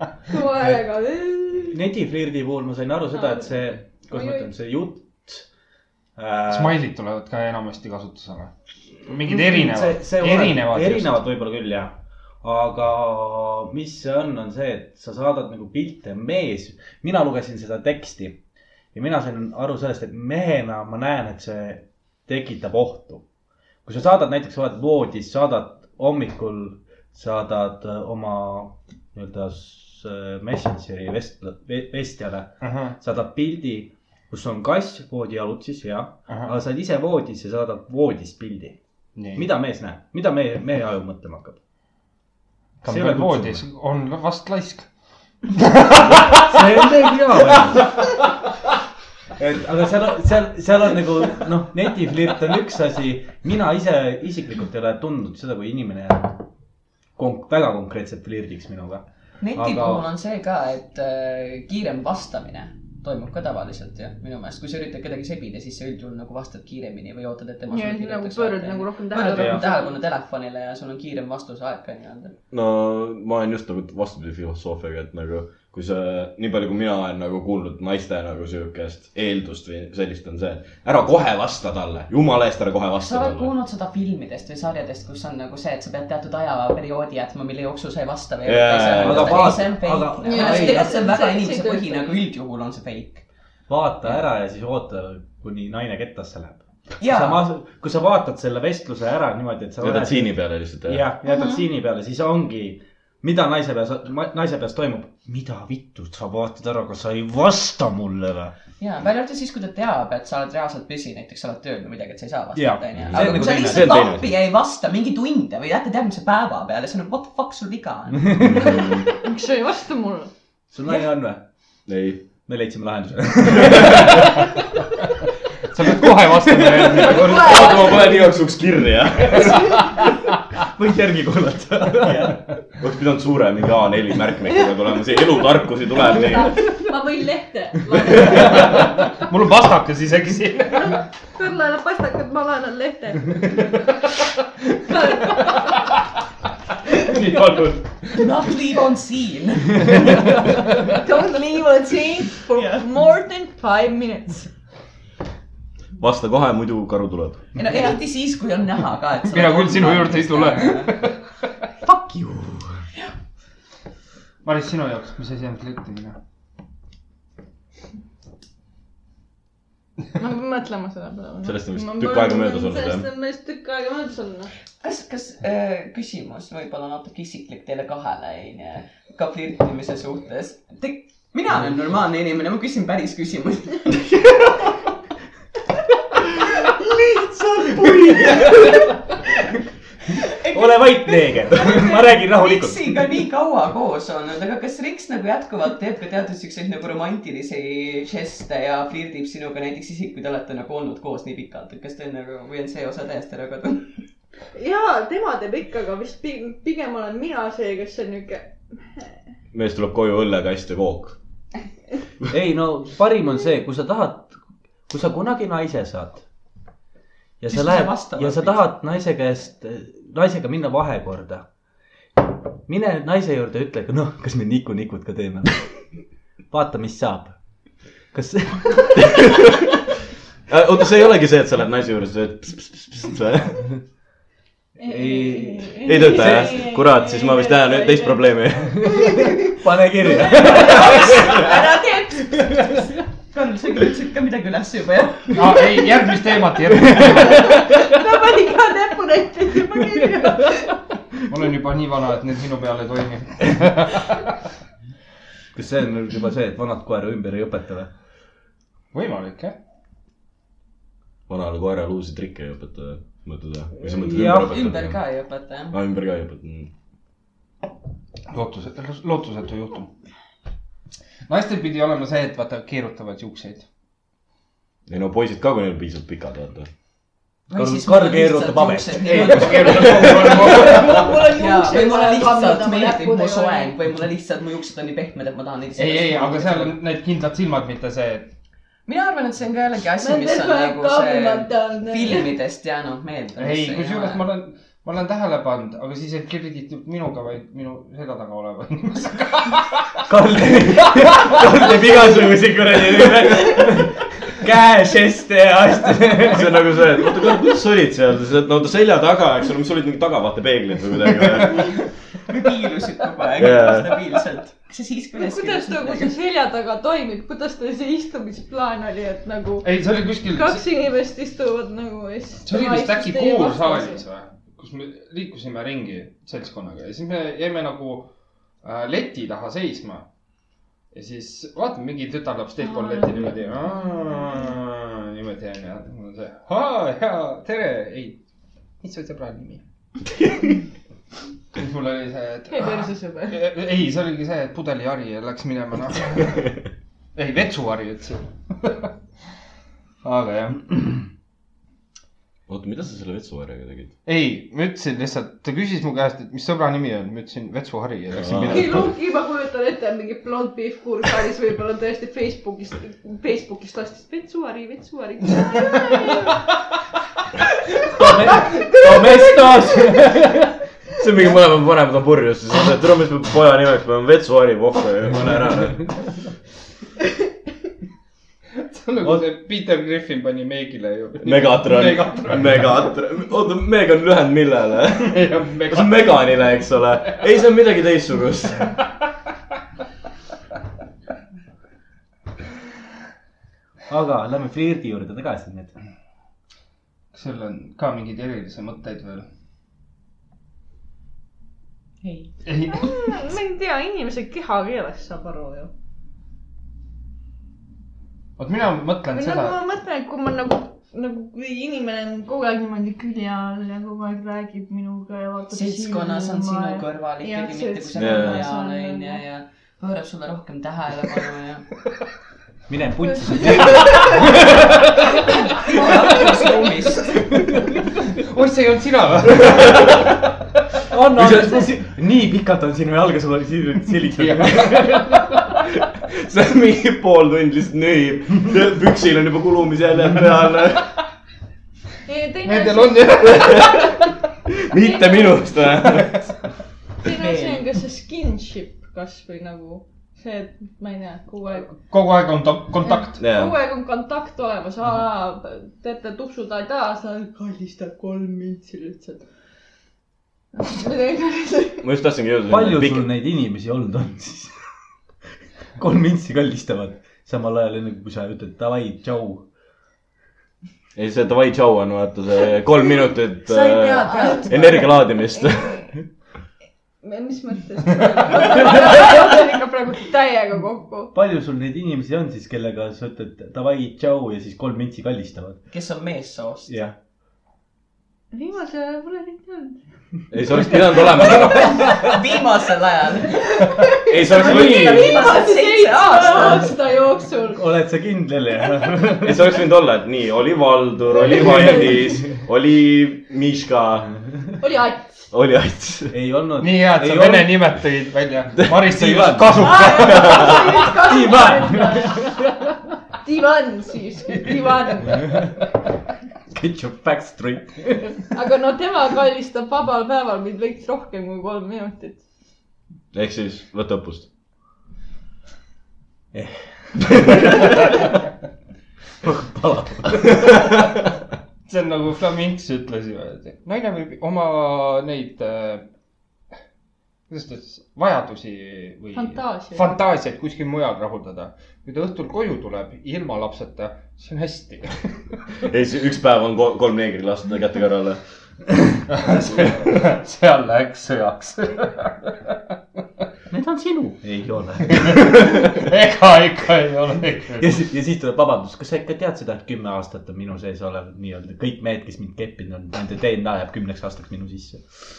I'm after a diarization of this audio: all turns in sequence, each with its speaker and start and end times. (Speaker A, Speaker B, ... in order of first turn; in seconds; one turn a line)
Speaker A: 0.3-1.8
Speaker B: 1.7-5.5
Speaker A: 3.1-4.5
Speaker B: 6.2-6.8
Speaker C: 6.5-8.5
Speaker C: 9.1-11.2
Speaker B: 9.2-18.4
Speaker B: 18.9-23.2
Speaker B: 23.9-38.8
Speaker C: 32.6-33.0
Speaker C: 39.2-39.5
Speaker B: 39.3-41.6
Speaker C: 42.8-44.9
Speaker B: 42.9-43.6
Speaker C: 45.5-46.5
Speaker B: 46.1-48.3
Speaker B: 49.4-56.4
Speaker B: 57.2-59.0
Speaker D: 59.4-72.3
Speaker B: 59.6-60.0
Speaker A: 67.7-70.0
Speaker E: 72.5-83.5
Speaker D: 83.0-93.2
Speaker E: 88.5-89.7
Speaker B: 89.0-91.0
Speaker A: 90.2-92.2
Speaker B: 93.7-108.5
Speaker D: 97.0-97.4
Speaker E: 99.8-101.1
Speaker A: 101.2-101.6
Speaker D: 108.8-118.7
Speaker B: 112.5-114.1
Speaker E: 113.0-114.3
Speaker B: 118.2-118.7
Speaker E: 118.4-119.1
Speaker A: 119.1-120.3
Speaker B: 120.7-121.4
Speaker E: 121.9-122.2
Speaker B: 122.5-124.5
Speaker E: 123.6-124.1
Speaker C: 125.7-127.8
Speaker B: 126.4-127.2
Speaker A: 127.0-128.3
Speaker E: 127.2-129.9
Speaker B: 130.6-132.4
Speaker E: 132.8-136.6
Speaker A: 135.9-139.1
Speaker B: 138.5-138.8
Speaker C: 138.5-141.0
Speaker A: 140.8-143.8
Speaker A: 144.8-145.8
Speaker C: 147.0-147.7
Speaker E: 147.1-147.4
Speaker D: 148.1-150.2
Speaker A: 150.8-154.5
Speaker D: 152.5-152.9
Speaker E: 156.0-157.5
Speaker D: 157.6-161.0
Speaker C: 159.3-161.2
Speaker B: 161.9-162.7
Speaker C: 164.4-166.2
Speaker A: 170.2-174.5
Speaker E: 171.4-173.1
Speaker D: 174.8-184.1
Speaker B: 187.4-188.9
Speaker D: 187.8-188.9
Speaker D: 190.1-204.0
Speaker B: 190.3-193.1
Speaker A: 204.6-209.1
Speaker E: 209.5-211.2
Speaker B: 212.3-214.4
Speaker B: 214.9-216.2
Speaker B: 217.4-221.4
Speaker D: 217.5-218.7
Speaker B: 222.7-225.7
Speaker B: 226.5-227.4
Speaker B: 228.1-229.5
Speaker E: 229.0-229.7
Speaker E: 230.5-233.8
Speaker A: 234.8-238.2
Speaker B: 234.8-236.6
Speaker E: 235.8-238.8
Speaker B: 238.7-241.6
Speaker A: 239.0-239.4
Speaker A: 240.1-241.3
Speaker D: 240.2-245.6
Speaker B: 242.3-242.9
Speaker C: 245.3-247.6
Speaker B: 246.8-247.8
Speaker A: 247.3-250.8
Speaker B: 250.0-250.5
Speaker C: 251.3-254.3
Speaker B: 255.5-257.9
Speaker C: 258.9-259.6
Speaker E: 261.3-265.0
Speaker B: 264.0-264.6
Speaker D: 264.2-265.8
Speaker E: 265.7-266.7
Speaker C: 268.3-269.9
Speaker C: 271.3-273.7
Speaker E: 274.9-276.7
Speaker D: 277.5-286.8
Speaker B: 277.5-280.6
Speaker C: 279.2-281.1
Speaker A: 280.3-283.8
Speaker C: 285.8-288.3
Speaker D: 288.9-294.2
Speaker A: 290.0-292.3
Speaker C: 293.4-300.0
Speaker B: 300.1-307.4
Speaker C: 300.8-301.4
Speaker E: 301.6-303.9
Speaker E: 306.2-311.8
Speaker D: 312.2-316.2
Speaker E: 313.4-314.0
Speaker A: 315.1-324.0
Speaker C: 319.6-320.6
Speaker C: 322.4-328.1
Speaker C: 328.6-330.1
Speaker C: 330.9-338.2
Speaker A: 332.6-333.4
Speaker C: 338.8-339.6
Speaker C: 341.5-346.5
Speaker A: 342.5-343.4
Speaker C: 347.1-348.9
Speaker C: 350.0-351.0
Speaker E: 352.5-353.9
Speaker C: 354.1-358.8
Speaker E: 358.2-358.9
Speaker A: 358.4-366.4
Speaker B: 367.9-370.5
Speaker E: 371.0-375.9
Speaker C: 378.6-382.5
Speaker E: 381.2-388.8
Speaker C: 385.0-386.2
Speaker B: 393.9-395.7
Speaker C: 397.1-399.3
Speaker D: 402.0-402.3
Speaker C: 402.4-403.2
Speaker A: 402.7-405.7
Speaker C: 408.4-409.6
Speaker A: 409.1-419.2
Speaker D: 415.5-421.7
Speaker E: 418.0-418.4
Speaker B: 422.7-425.3
Speaker A: 423.0-424.2
Speaker D: 425.2-427.3
Speaker C: 428.0-429.9
Speaker E: 429.4-430.1
Speaker B: 430.9-435.2
Speaker E: 431.1-431.7
Speaker C: 434.2-435.0
Speaker E: 435.5-440.9
Speaker A: 442.1-444.0
Speaker C: 442.4-443.8
Speaker E: 443.3-443.9
Speaker E: 444.6-446.4
Speaker A: 444.7-445.4
Speaker A: 447.0-451.7
Speaker D: 447.2-447.6
Speaker C: 451.6-453.2
Speaker A: 453.0-459.2
Speaker E: 453.2-453.5
Speaker A: 460.5-461.8
Speaker E: 461.8-463.1
Speaker B: 462.5-464.6
Speaker B: 465.8-469.4
Speaker E: 471.0-476.1
Speaker D: 473.4-475.0
Speaker A: 474.0-475.9
Speaker A: 477.0-481.1
Speaker B: 481.1-485.6
Speaker D: 485.7-486.8
Speaker B: 486.7-487.0
Speaker A: 488.3-489.8
Speaker E: 490.3-491.9
Speaker D: 491.3-496.8
Speaker A: 493.6-497.6
Speaker E: 494.0-495.3
Speaker B: 497.5-499.5
Speaker E: 499.2-504.2
Speaker A: 501.1-502.0
Speaker B: 501.2-502.3
Speaker A: 504.6-505.2
Speaker E: 505.3-506.1
Speaker B: 506.1-507.6
Speaker C: 506.6-510.5
Speaker B: 508.9-512.5
Speaker A: 509.6-515.4
Speaker B: 515.1-515.5
Speaker B: 516.5-518.2
Speaker A: 518.3-522.2
Speaker E: 523.1-524.3
Speaker B: 526.3-528.0
Speaker B: 529.2-530.9
Speaker C: 531.7-535.9
Speaker C: 537.3-545.4
Speaker A: 539.1-540.0
Speaker E: 545.6-548.2
Speaker C: 549.1-552.5
Speaker B: 553.5-555.5
Speaker C: 555.0-557.7
Speaker B: 557.6-564.9